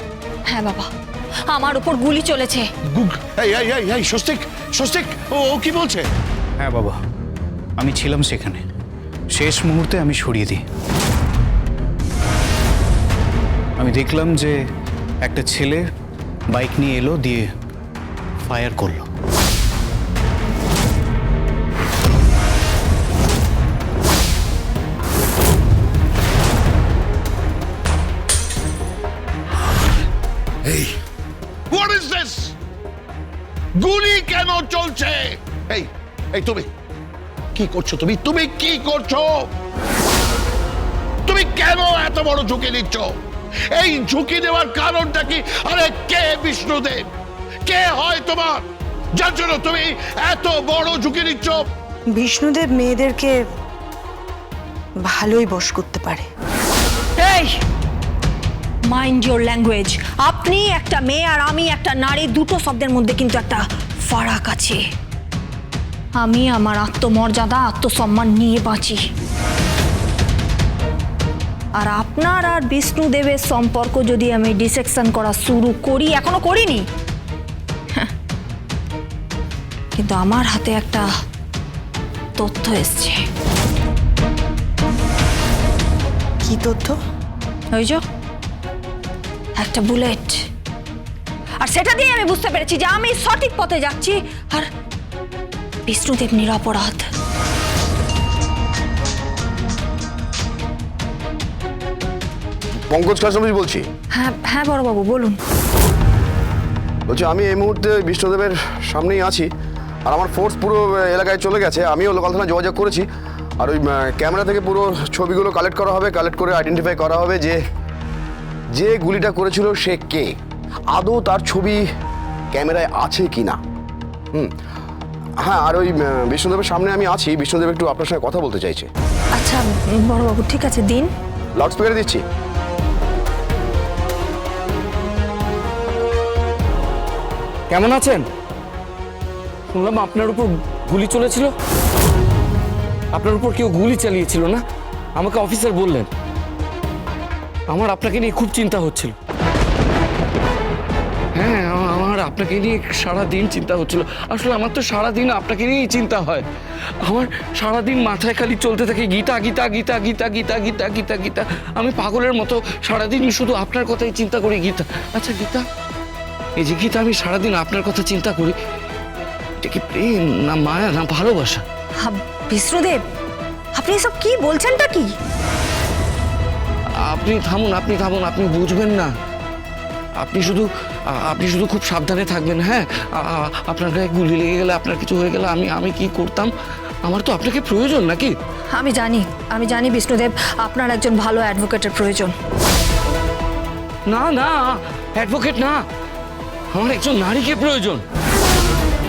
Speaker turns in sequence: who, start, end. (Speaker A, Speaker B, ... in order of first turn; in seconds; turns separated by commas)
Speaker A: 0.5-0.9, Speaker A: 1.5-2.6, Speaker B: 2.9-6.0, Speaker C: 6.6-7.0, Speaker C: 7.8-8.6, Speaker C: 9.3-10.6, Speaker C: 13.8-14.6, Speaker C: 15.2-15.9, Speaker C: 16.5-17.5, Speaker C: 18.4-19.1, Speaker B: 30.6-31.0, Speaker B: 31.7-32.5, Speaker B: 33.8-36.7, Speaker B: 37.5-39.5, Speaker B: 41.3-43.2, Speaker B: 43.7-47.1, Speaker B: 47.6-51.6, Speaker D: 52.1-53.4, Speaker D: 55.0-56.3, Speaker A: 57.2-57.6, Speaker A: 58.9-64.8, Speaker A: 66.2-69.0, Speaker A: 71.8-76.8, Speaker A: 80.0-81.1, Speaker A: 82.4-83.2, Speaker D: 86.4-87.0, Speaker A: 87.7-88.0, Speaker A: 89.6-90.5, Speaker A: 91.6-94.7, Speaker A: 95.9-97.0, Speaker E: 102.9-103.9, Speaker A: 104.1-105.4, Speaker E: 107.1-109.5, Speaker E: 110.1-113.1, Speaker E: 113.6-117.6, Speaker E: 118.7-120.3, Speaker E: 120.9-121.8, Speaker E: 122.5-123.6, Speaker E: 125.4-128.9, Speaker A: 129.3-131.1, Speaker E: 131.6-132.2, Speaker F: 137.7-138.2, Speaker F: 139.7-141.5, Speaker F: 143.1-144.6, Speaker F: 145.2-146.1, Speaker F: 147.7-149.2, Speaker F: 151.3-156.5, Speaker F: 157.0-165.7, Speaker F: 166.6-168.6, Speaker F: 169.6-171.6, Speaker A: 172.0-173.0, Speaker A: 173.7-175.1, Speaker F: 177.0-179.1, Speaker F: 180.2-186.5, Speaker F: 187.1-188.3, Speaker A: 188.7-192.3, Speaker F: 194.1-195.8, Speaker F: 196.7-198.0